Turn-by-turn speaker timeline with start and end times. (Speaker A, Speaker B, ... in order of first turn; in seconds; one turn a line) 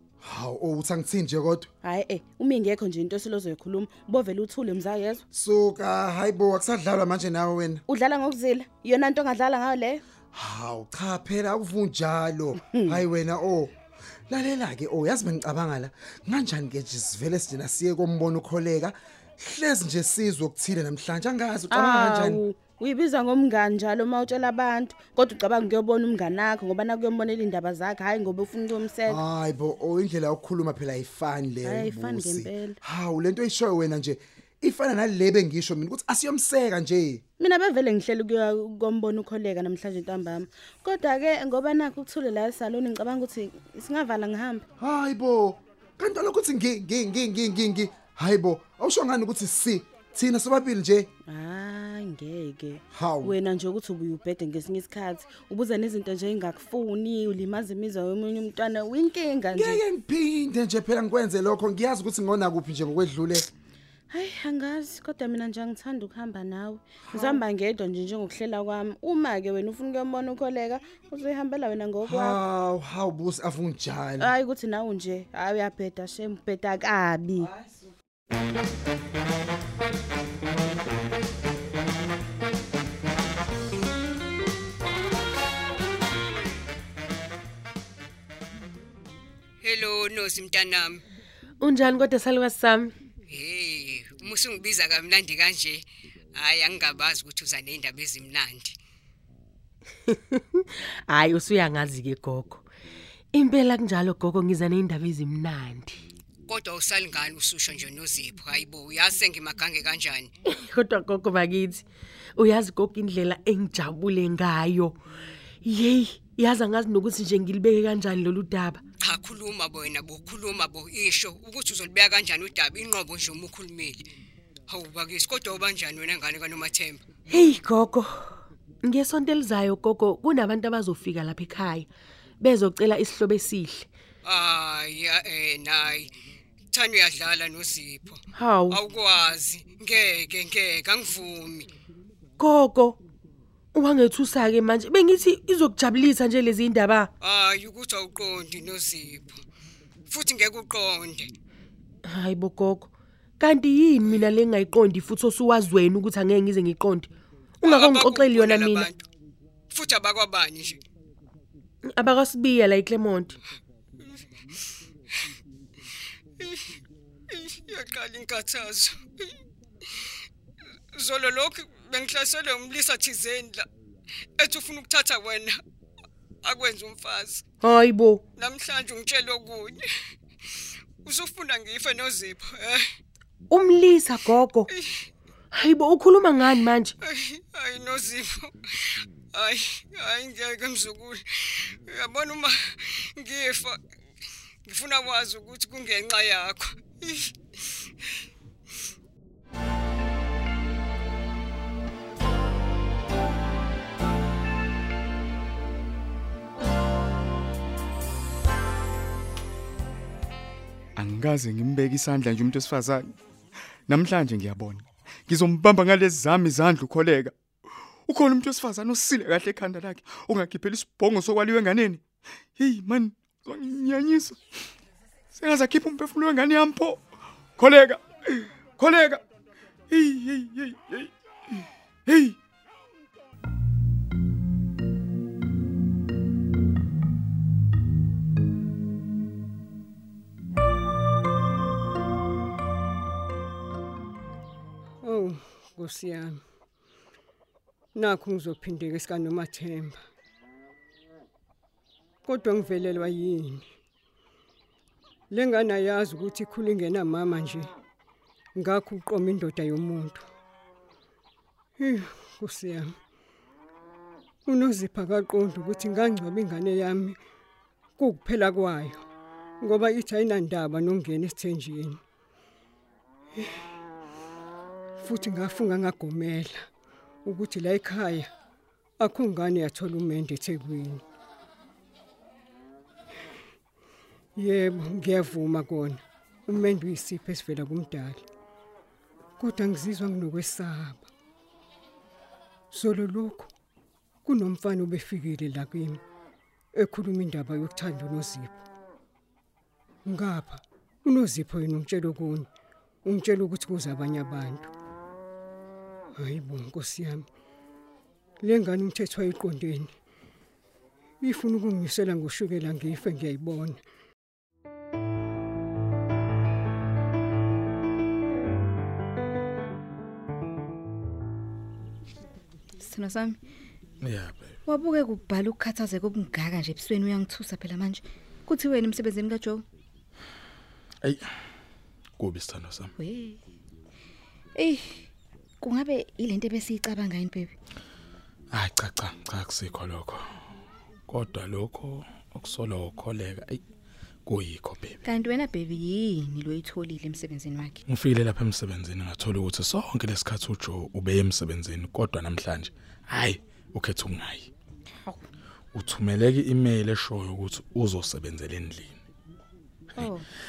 Speaker A: 0.2-1.7
Speaker B: 1.8-5.2
Speaker A: 5.3-7.8
Speaker B: 7.9-10.0
Speaker A: 10.3-13.7
Speaker B: 12.7-13.0
Speaker A: 14.3-22.4
Speaker B: 21.7-29.2
Speaker A: 29.1-37.2
Speaker B: 31.6-32.8
Speaker B: 37.4-44.6
Speaker A: 44.8-51.1
Speaker B: 51.3-59.8
Speaker A: 52.9-53.4
Speaker A: 59.5-63.5
Speaker B: 64.1-72.4
Speaker A: 67.1-67.4
Speaker A: 72.0-74.3
Speaker B: 74.2-77.5
Speaker C: 89.6-91.0
Speaker D: 91.6-92.9
Speaker C: 93.3-98.8
Speaker D: 101.1-102.6
Speaker D: 103.3-106.0
Speaker C: 106.5-110.3
Speaker D: 110.5-111.8
Speaker D: 112.4-115.0
Speaker D: 115.6-118.8
Speaker C: 119.0-124.1
Speaker C: 124.7-127.0
Speaker D: 127.3-131.9
Speaker D: 132.4-133.9
Speaker C: 134.2-136.1
Speaker C: 136.7-141.7
Speaker D: 138.3-138.8
Speaker D: 142.4-143.0
Speaker D: 143.7-147.1
Speaker C: 147.2-149.4
Speaker C: 150.1-151.3
Speaker D: 152.0-159.0
Speaker C: 157.6-158.9
Speaker C: 159.7-160.8
Speaker D: 161.9-163.4
Speaker C: 166.4-166.7
Speaker C: 167.3-169.3
Speaker C: 170.9-173.7
Speaker C: 174.4-175.6
Speaker C: 176.4-177.4
Speaker D: 177.6-178.2
Speaker C: 178.4-179.8
Speaker C: 181.0-182.8
Speaker D: 183.5-184.7
Speaker C: 184.7-184.9
Speaker D: 185.5-186.9
Speaker C: 187.0-193.8
Speaker C: 194.7-197.3
Speaker E: 211.0-213.1
Speaker E: 213.9-217.3
Speaker E: 218.1-222.0
Speaker E: 222.6-224.3
Speaker E: 225.3-227.0
Speaker E: 227.6-228.0
Speaker E: 228.8-229.2
Speaker E: 229.9-231.1
Speaker E: 232.1-232.3
Speaker F: 245.0-246.4
Speaker F: 247.9-250.0
Speaker F: 252.3-253.6
Speaker F: 255.3-257.7
Speaker F: 258.6-260.2
Speaker F: 261.8-262.9
Speaker F: 264.5-267.2
Speaker F: 268.0-269.0
Speaker F: 269.6-272.0
Speaker F: 275.0-276.6
Speaker F: 277.2-278.3
Speaker F: 279.0-281.0
Speaker F: 284.4-288.2
Speaker F: 289.4-291.1
Speaker F: 292.7-293.5
Speaker F: 294.2-296.0
Speaker F: 296.8-298.6
Speaker F: 300.1-302.5
Speaker F: 303.1-304.7
Speaker F: 306.2-307.2
Speaker F: 308.4-309.9
Speaker F: 311.2-313.8
Speaker G: 322.8-323.4
Speaker H: 324.0-324.6
Speaker G: 324.6-329.6
Speaker H: 332.2-332.9
Speaker G: 333.0-333.4
Speaker G: 334.6-335.1
Speaker G: 335.6-337.5
Speaker H: 338.5-340.2
Speaker H: 341.1-343.6
Speaker H: 344.3-345.0
Speaker G: 345.0-347.8
Speaker H: 347.9-354.5
Speaker G: 355.0-355.3
Speaker H: 355.7-359.0
Speaker G: 360.0-360.3